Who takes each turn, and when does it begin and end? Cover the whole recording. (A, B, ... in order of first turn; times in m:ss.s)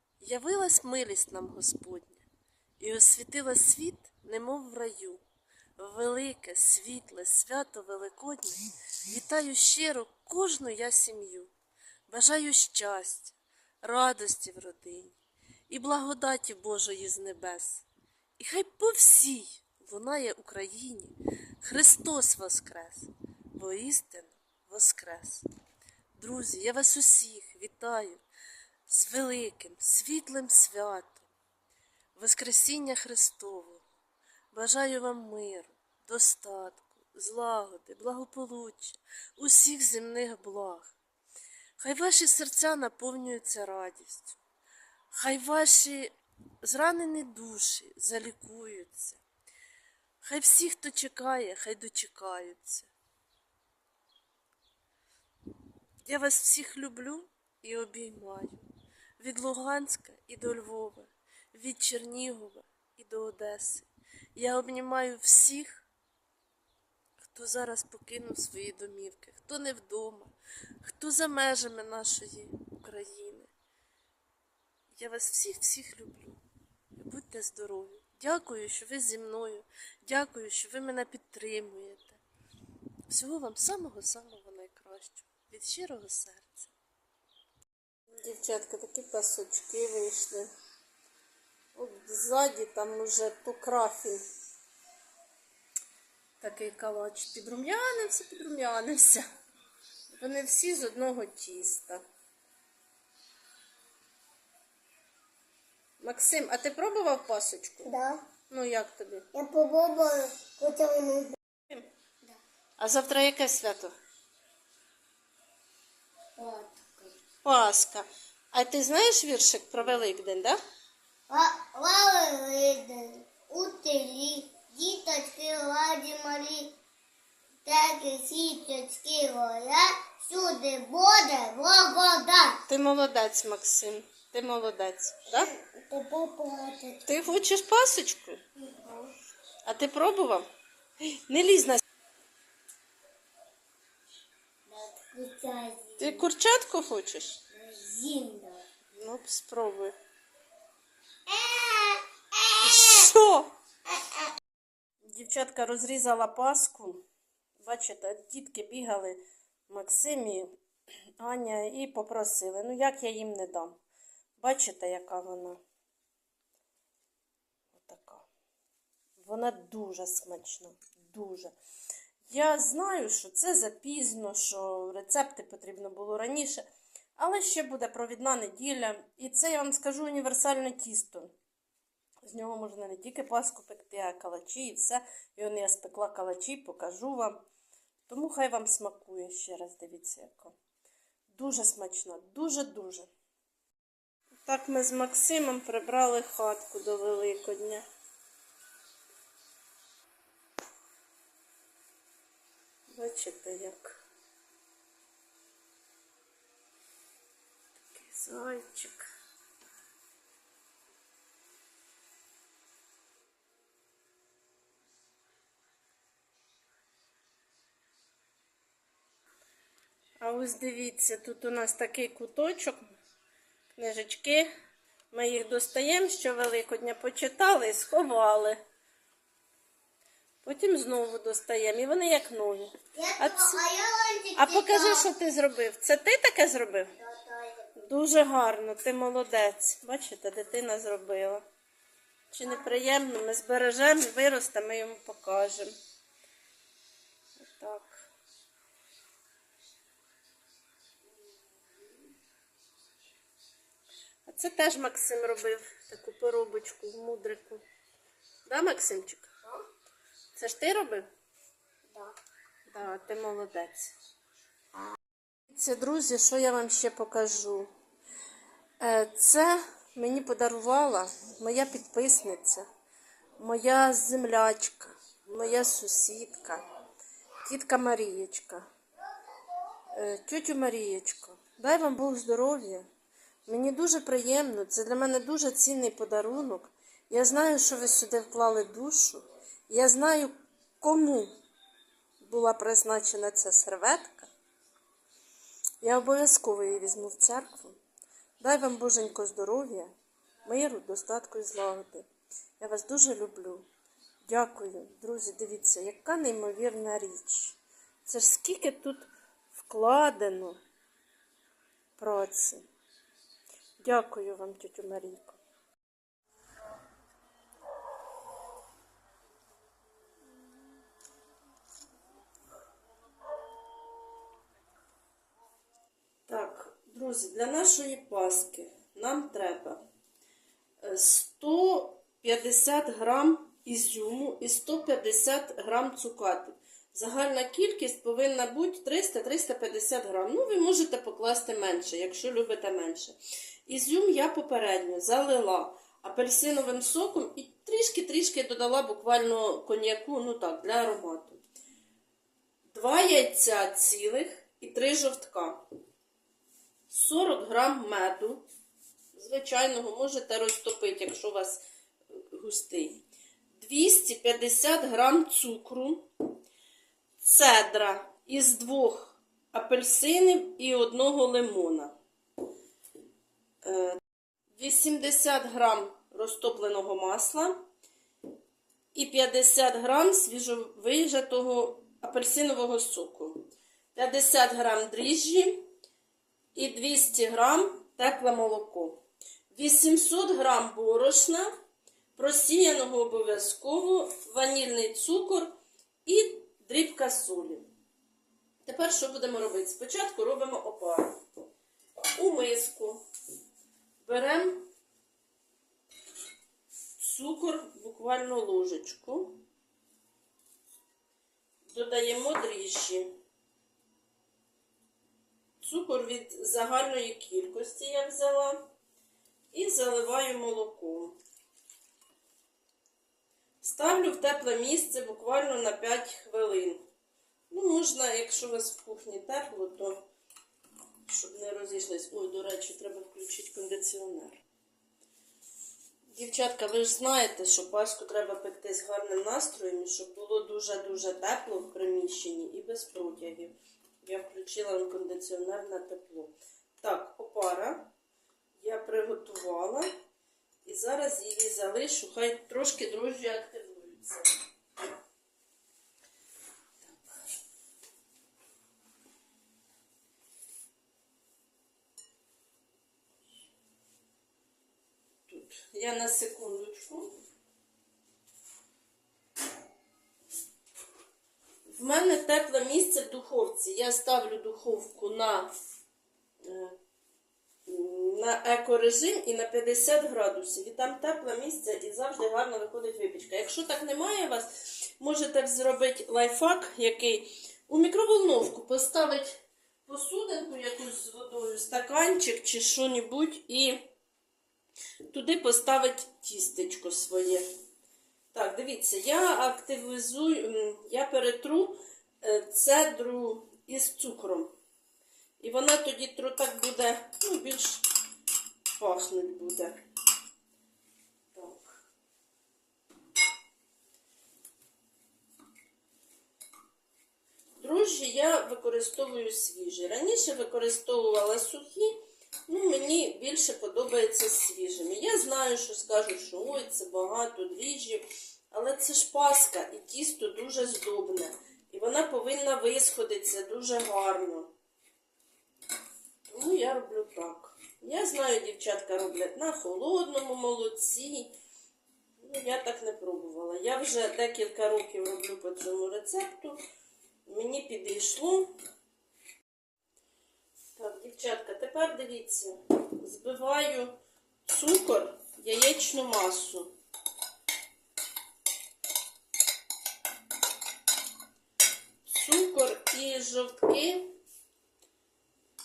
0:00.2-0:02.2 A
0:02.8-0:05.2 A
0:05.8-0:11.5 A
0:12.1-0:15.2 A
0:15.7-0:17.9 A
0:18.4-0:25.4 A
0:26.2-0:28.2 A
0:28.9-0:31.3 A
0:32.2-0:33.8 A
0:34.5-0:40.9 A
0:41.8-0:44.4 A
0:45.1-0:49.2 A
0:50.2-0:52.9 A
0:56.0-0:58.6 A
0:59.2-1:05.9 A
1:07.2-1:13.5 A
1:14.9-1:16.4 A
1:17.0-1:22.2 A
1:23.1-1:26.7 A
1:28.1-1:30.5 A
1:31.8-1:34.2 A
1:36.4-1:39.3 A
1:40.2-1:42.0 A
1:46.0-1:47.9 A
1:47.8-1:48.2 B
1:48.5-1:49.3 A
1:49.3-1:51.4 B
1:52.8-1:53.9 A
1:56.4-1:57.2 B
1:57.4-2:00.6 A
2:01.3-2:06.7 B
2:07.6-2:12.6 B
2:12.7-2:15.5 A
2:15.6-2:17.2 B
2:17.1-2:18.4 A
2:18.7-2:19.1 B
2:19.6-2:20.5 A
2:21.1-2:21.8 A
2:24.7-2:26.2 B
2:26.0-2:27.4 A
2:27.5-2:28.6 B
2:28.9-2:30.0 A
2:31.3-2:33.1 B
2:32.6-2:33.5 A
2:35.0-2:37.0 A
2:37.6-2:40.6 A
2:41.2-2:43.8 A
2:44.4-2:45.6 A
2:47.7-2:48.3 A
2:49.2-2:51.6 A
2:52.3-3:01.3 A
3:02.2-3:07.4 A
3:08.1-3:10.6 A
3:11.3-3:13.1 A
3:14.4-3:17.8 A
3:22.9-3:24.0 A
3:27.9-3:29.1 A
3:40.2-3:42.8 A
3:43.8-3:44.5 A
3:45.1-3:48.6 A
3:50.4-3:53.6 A
3:53.0-3:55.1 B
3:54.4-3:57.0 A
3:57.0-3:57.7 B
3:57.8-4:01.4 A
4:02.3-4:05.7 A
4:07.4-4:08.1 A
4:14.3-4:17.6 A
4:18.5-4:19.4 A
4:20.4-4:21.1 A
4:22.7-4:23.9 A
4:25.5-4:27.7 A
4:28.8-4:32.7 A
4:33.4-4:36.6 A
4:37.4-4:38.7 A
4:39.9-4:42.9 A
4:43.5-4:51.3 A
4:52.2-4:54.3 A
4:55.8-4:57.8 A
4:58.4-4:59.9 A
5:00.4-5:02.1 A
5:02.6-5:03.7 A
5:04.2-5:10.6 A
5:12.0-5:12.6 A
5:13.8-5:15.4 A
5:26.3-5:29.8 A
5:30.8-5:51.4 A
5:52.7-5:55.6 A
5:56.9-5:58.4 A
5:59.1-6:01.6 A
6:02.1-6:03.0 A
6:03.6-6:06.1 A
6:07.2-6:11.9 A
6:13.6-6:14.0 A
6:14.5-6:17.6 A
6:18.9-6:25.7 A
6:26.6-6:31.5 A
6:32.2-6:35.6 A
6:36.1-6:37.7 A
6:38.6-6:41.2 A
6:42.1-6:43.0 A
6:44.0-6:44.7 A
6:47.0-6:49.4 A
6:51.7-6:53.1 A
6:55.6-6:58.7 A
6:59.5-7:01.2 A
7:03.6-7:06.8 A
7:07.5-7:10.0 A
7:11.1-7:14.4 A
7:16.1-7:27.9 A
7:28.6-7:29.9 A
7:30.6-7:34.4 A
7:36.8-7:37.2 A
7:45.3-7:47.1 A
7:51.7-7:55.5 A
7:56.4-7:56.8 A
7:57.7-8:13.8 A
8:15.1-8:17.4 A
8:18.3-8:24.5 A
8:25.4-8:27.9 A
8:28.7-8:29.8 A
8:31.3-8:31.8 A
8:37.6-8:54.5 A
8:56.3-9:01.3 A
9:02.2-9:06.6 A
9:07.3-9:08.5 A
9:10.8-9:16.7 A
9:22.0-9:24.1 A